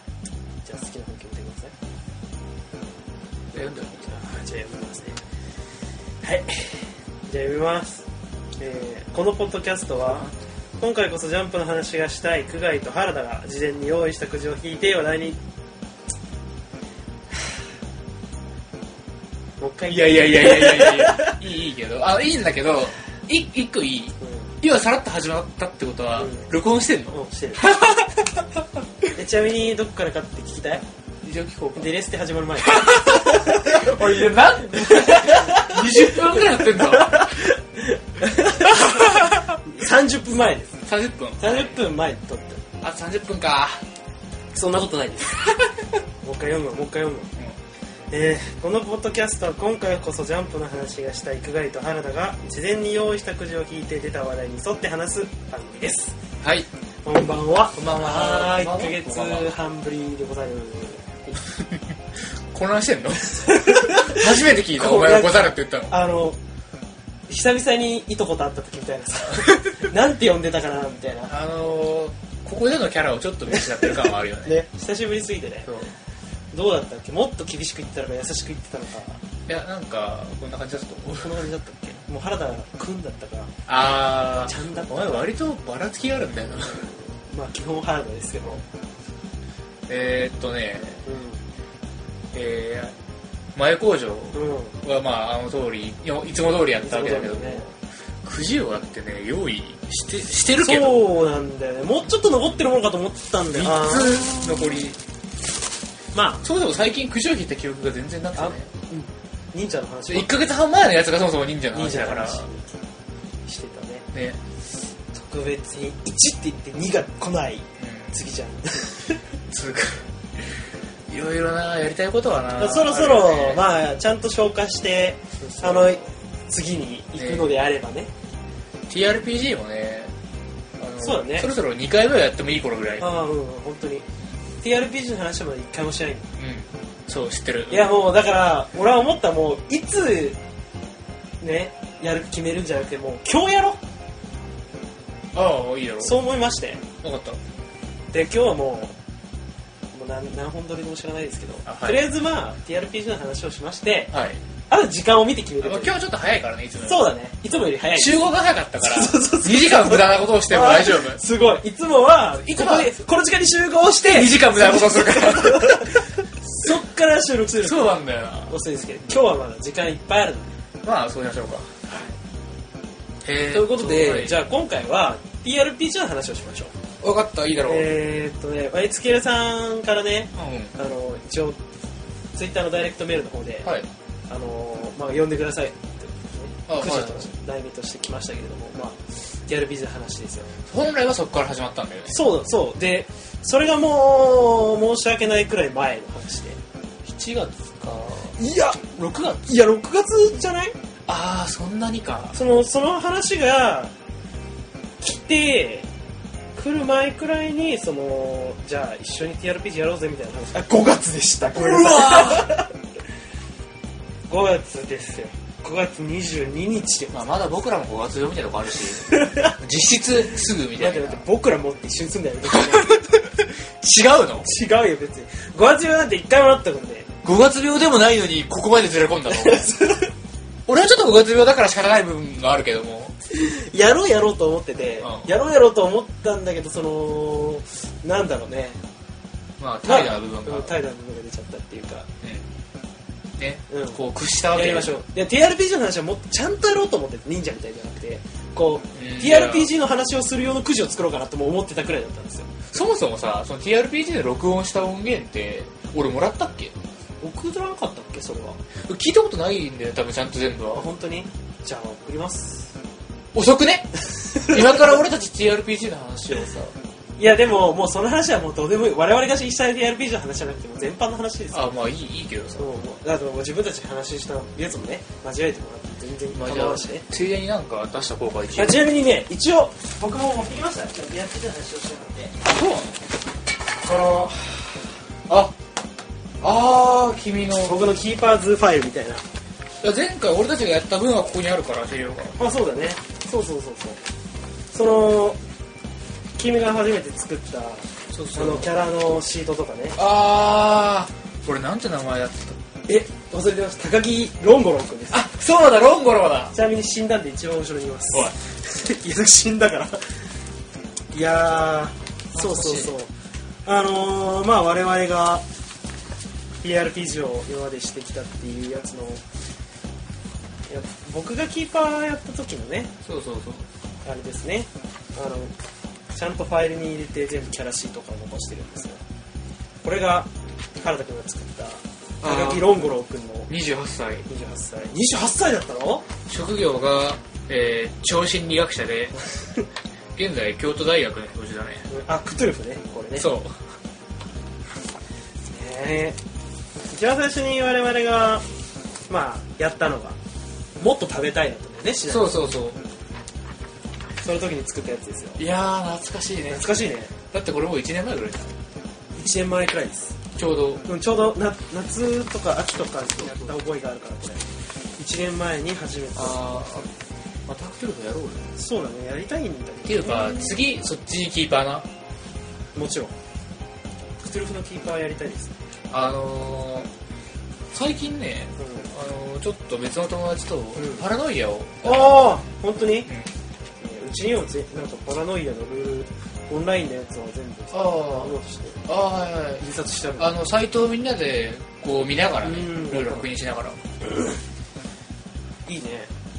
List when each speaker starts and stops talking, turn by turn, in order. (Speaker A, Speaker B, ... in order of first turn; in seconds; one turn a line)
Speaker A: 0.6-1.7
Speaker B: 3.5-4.1
Speaker A: 3.6-5.2
Speaker A: 6.2-8.1
Speaker A: 8.6-10.3
Speaker B: 9.9-10.3
Speaker A: 10.8-15.4
Speaker A: 19.6-21.4
Speaker B: 19.9-28.4
Speaker A: 24.2-24.5
Speaker A: 26.1-26.4
Speaker A: 27.1-27.8
Speaker A: 29.1-30.8
Speaker B: 31.2-31.9
Speaker A: 31.8-40.8
Speaker B: 32.6-37.4
Speaker B: 38.7-39.5
Speaker B: 40.9-41.8
Speaker A: 41.4-42.6
Speaker B: 42.8-43.8
Speaker A: 44.5-45.4
Speaker A: 46.2-47.3
Speaker A: 48.1-56.2
Speaker B: 56.4-56.7
Speaker A: 57.0-61.4
Speaker B: 57.7-59.5
Speaker B: 61.5-66.0
Speaker A: 63.3-66.4
Speaker A: 67.3-71.3
Speaker B: 71.3-74.6
Speaker A: 73.7-75.8
Speaker B: 75.7-75.9
Speaker A: 76.5-79.2
Speaker B: 79.5-81.4
Speaker A: 81.2-83.5
Speaker B: 83.7-86.8
Speaker A: 84.5-85.3
Speaker A: 86.6-88.6
Speaker B: 89.9-91.1
Speaker A: 91.0-91.4
Speaker B: 92.3-92.9
Speaker B: 93.5-101.1
Speaker A: 94.3-94.8
Speaker A: 96.8-97.6
Speaker A: 100.6-104.7
Speaker B: 103.5-105.0
Speaker A: 106.1-106.4
Speaker B: 106.4-108.7
Speaker A: 108.3-110.3
Speaker B: 110.1-112.5
Speaker A: 111.7-112.8
Speaker A: 113.5-114.1
Speaker B: 114.1-114.4
Speaker A: 115.1-119.2
Speaker B: 117.8-118.1
Speaker B: 119.5-123.6
Speaker A: 122.6-128.1
Speaker B: 125.5-126.1
Speaker B: 127.2-127.5
Speaker B: 128.9-130.1
Speaker B: 130.8-133.1
Speaker A: 131.0-131.5
Speaker A: 133.0-134.0
Speaker A: 134.6-136.3
Speaker B: 136.4-137.9
Speaker A: 137.7-140.4
Speaker A: 141.4-143.8
Speaker B: 145.3-146.2
Speaker A: 146.0-146.8
Speaker B: 147.0-147.4
Speaker A: 148.1-148.9
Speaker A: 149.9-154.1
Speaker B: 151.7-152.0
Speaker B: 154.1-154.4
Speaker A: 154.7-155.9
Speaker B: 155.6-157.1
Speaker A: 156.8-158.2
Speaker B: 157.9-161.2
Speaker A: 158.8-167.9
Speaker B: 162.4-162.9
Speaker B: 164.0-165.9
Speaker B: 167.6-168.6
Speaker A: 168.5-170.5
Speaker B: 170.8-171.7
Speaker A: 171.9-172.1
Speaker B: 173.2-174.4
Speaker A: 173.5-176.7
Speaker B: 177.0-177.9
Speaker A: 177.6-181.6
Speaker B: 180.3-180.7
Speaker A: 182.3-183.7
Speaker A: 184.3-190.5
Speaker B: 186.7-187.3
Speaker B: 190.7-192.2
Speaker A: 192.1-196.6
Speaker B: 197.0-198.4
Speaker A: 198.4-200.8
Speaker B: 201.1-202.4
Speaker A: 202.3-203.9
Speaker A: 205.0-205.9
Speaker A: 206.6-212.7
Speaker B: 211.5-212.6
Speaker A: 214.3-217.2
Speaker B: 217.1-221.2
Speaker A: 219.0-219.6
Speaker A: 220.8-223.0
Speaker B: 222.5-224.5
Speaker A: 224.4-227.1
Speaker B: 227.2-229.7
Speaker A: 229.3-230.1
Speaker B: 230.7-233.2
Speaker A: 233.3-238.8
Speaker B: 235.0-235.3
Speaker B: 239.6-240.7
Speaker A: 239.8-242.1
Speaker B: 242.2-242.5
Speaker B: 243.4-244.9
Speaker A: 243.7-244.0
Speaker A: 244.5-252.5
Speaker B: 248.9-249.7
Speaker B: 252.7-256.8
Speaker A: 257.2-258.6
Speaker B: 258.8-260.9
Speaker A: 260.7-262.7
Speaker B: 263.3-266.7
Speaker A: 267.2-271.7
Speaker B: 271.5-272.7
Speaker A: 272.6-277.1
Speaker B: 276.3-278.8
Speaker A: 278.5-282.4
Speaker B: 282.4-283.0
Speaker A: 283.8-284.9
Speaker B: 285.3-285.5
Speaker B: 286.4-287.8
Speaker A: 287.6-289.2
Speaker B: 289.8-292.4
Speaker A: 292.4-294.0
Speaker A: 294.7-295.4
Speaker A: 296.4-300.0
Speaker B: 298.1-298.7
Speaker B: 299.9-302.6
Speaker A: 302.9-305.2
Speaker B: 305.1-306.5
Speaker A: 306.5-310.0
Speaker A: 311.1-313.1
Speaker B: 312.3-312.9
Speaker A: 313.6-315.4
Speaker A: 316.6-319.2
Speaker A: 320.7-322.9
Speaker B: 323.0-323.7
Speaker A: 324.0-325.5
Speaker A: 326.1-329.0
Speaker A: 329.8-333.5
Speaker B: 332.2-332.7
Speaker B: 333.5-334.3
Speaker A: 334.3-336.0
Speaker B: 336.3-339.1
Speaker B: 340.1-341.9
Speaker A: 341.9-343.2
Speaker B: 343.2-343.6
Speaker A: 345.5-346.2
Speaker A: 346.9-348.4
Speaker A: 349.1-350.2
Speaker A: 350.8-352.3
Speaker B: 352.1-352.8
Speaker A: 354.2-355.4
Speaker B: 355.4-356.7
Speaker A: 356.5-357.1
Speaker B: 357.3-358.5
Speaker A: 359.1-360.2
Speaker B: 360.4-360.8
Speaker A: 360.9-364.4
Speaker B: 363.2-363.5
Speaker A: 365.0-366.4
Speaker B: 366.1-366.9
Speaker B: 367.5-368.5
Speaker A: 368.6-370.6
Speaker B: 369.8-371.9
Speaker A: 372.7-373.1
Speaker A: 374.2-375.5
Speaker B: 375.9-376.9
Speaker B: 377.7-382.4
Speaker A: 378.6-378.9
Speaker A: 380.8-381.0
Speaker A: 381.8-383.1
Speaker A: 383.8-388.8
Speaker B: 387.7-388.4
Speaker B: 388.9-389.6
Speaker A: 389.6-390.3
Speaker B: 390.2-393.8
Speaker A: 392.4-393.3
Speaker A: 395.6-396.1